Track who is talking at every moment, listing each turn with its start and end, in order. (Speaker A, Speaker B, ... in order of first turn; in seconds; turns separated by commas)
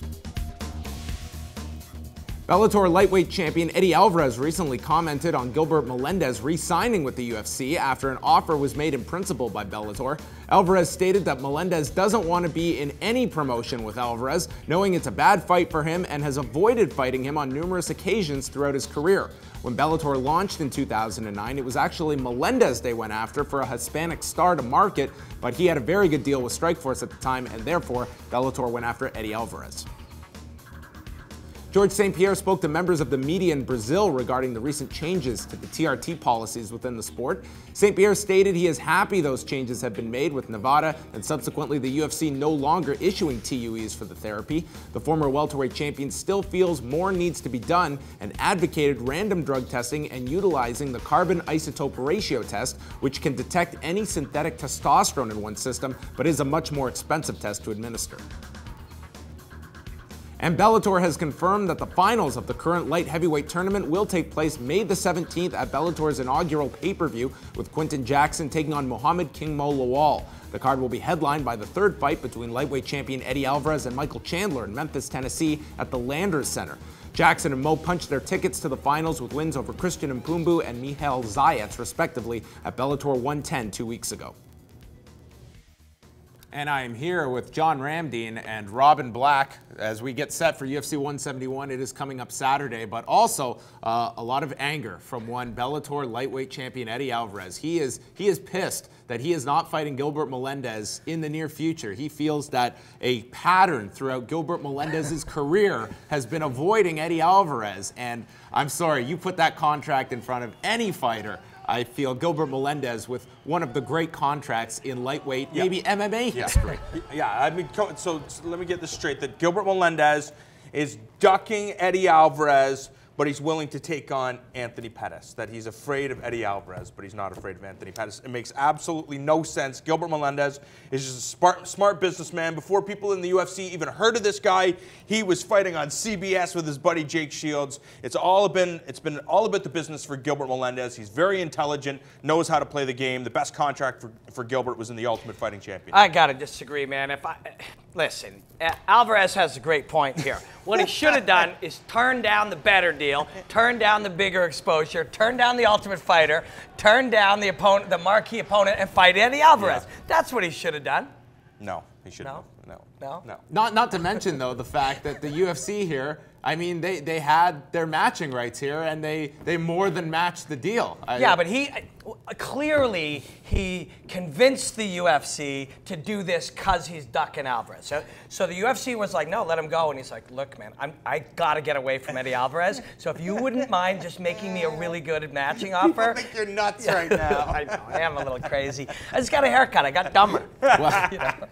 Speaker A: 2.5-29.9, Speaker A: 31.7-58.2, Speaker A: 60.4-84.3, Speaker A: 86.5-116.8, Speaker B: 116.3-146.0, Speaker C: 145.9-161.1, Speaker B: 159.6-159.8, Speaker B: 161.6-163.4, Speaker C: 163.0-163.2, Speaker A: 163.5-171.4, Speaker C: 171.2-191.4, Speaker A: 185.9-187.6, Speaker A: 190.7-191.2